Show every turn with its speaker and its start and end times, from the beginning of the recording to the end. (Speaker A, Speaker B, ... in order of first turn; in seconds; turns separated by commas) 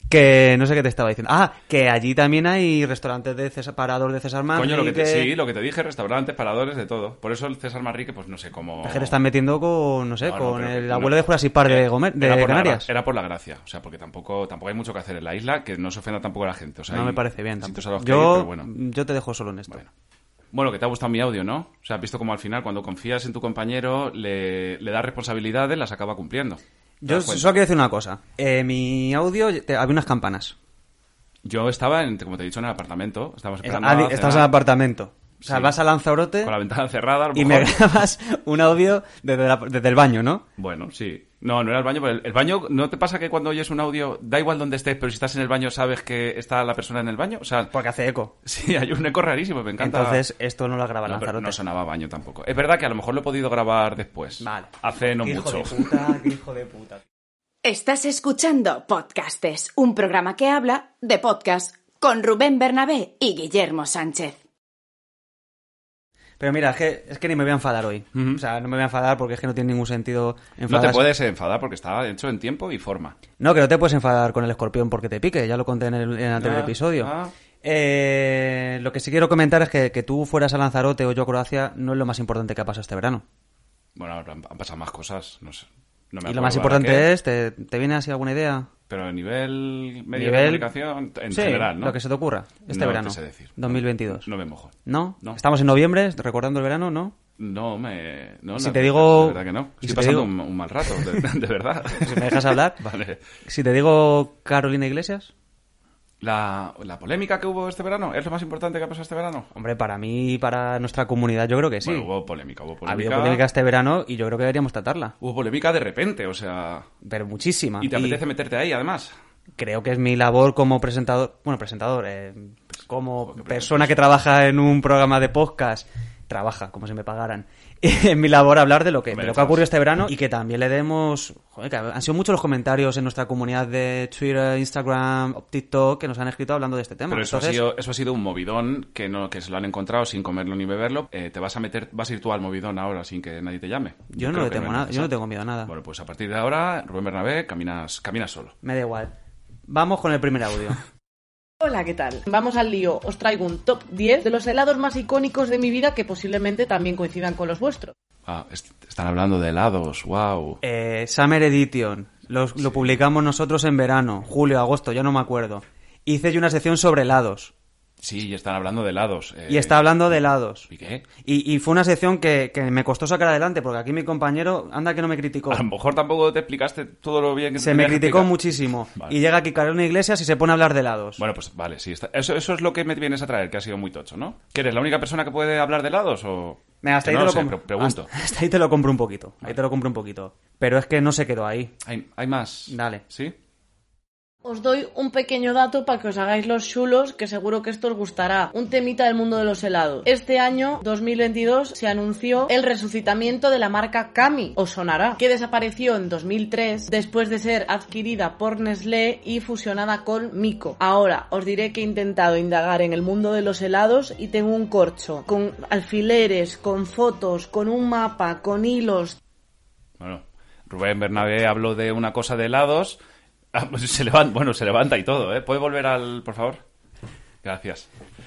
Speaker A: 0.1-5.3, Speaker B: 4.5-9.2, Speaker A: 8.8-12.9, Speaker B: 10.2-18.7, Speaker A: 16.9-19.8, Speaker B: 20.5-27.5, Speaker A: 27.0-30.6, Speaker B: 31.4-34.5, Speaker A: 33.6-36.5, Speaker B: 35.4-35.8, Speaker B: 36.4-37.8, Speaker A: 37.3-40.4, Speaker B: 40.6-47.7, Speaker A: 47.7-48.3, Speaker B: 48.4-50.2, Speaker A: 49.8-51.6, Speaker B: 51.0-55.8, Speaker A: 54.4-57.0, Speaker C: 57.6-64.4, Speaker A: 66.4-71.1, Speaker B: 68.1-68.4, Speaker B: 70.7-73.2, Speaker A: 73.4-77.1, Speaker B: 76.4-77.3, Speaker A: 77.6-83.2, Speaker B: 84.0-87.1, Speaker A: 86.2-88.7, Speaker B: 88.9-92.0, Speaker A: 90.1-90.7, Speaker A: 91.3-94.3, Speaker B: 92.7-95.4, Speaker A: 94.8-97.1, Speaker B: 97.4-103.2, Speaker A: 98.6-100.3, Speaker A: 100.8-101.2, Speaker A: 102.0-102.9, Speaker A: 103.4-105.3, Speaker B: 106.2-109.5, Speaker A: 109.5-112.1, Speaker B: 111.8-113.4, Speaker A: 112.8-115.1, Speaker B: 115.2-116.9, Speaker A: 117.0-118.2, Speaker B: 117.8-119.1, Speaker A: 119.6-137.6, Speaker B: 123.2-124.0, Speaker B: 129.1-129.7, Speaker B: 137.1-145.1, Speaker A: 144.1-145.7, Speaker B: 145.6-148.5, Speaker A: 148.6-149.1, Speaker A: 149.7-150.8, Speaker D: 151.6-157.9, Speaker B: 158.2-160.6, Speaker A: 160.6-167.5, Speaker B: 162.6-163.0, Speaker B: 168.0-171.0, Speaker A: 169.5-170.7, Speaker A: 171.2-175.6, Speaker B: 175.5-178.4, Speaker A: 177.6-181.2, Speaker B: 181.2-188.1, Speaker A: 186.8-191.7, Speaker B: 191.8-193.3, Speaker A: 192.7-193.0, Speaker D: 194.4-219.2, Speaker B: 220.0-223.0, Speaker B: 223.5-226.6, Speaker B: 227.4-227.9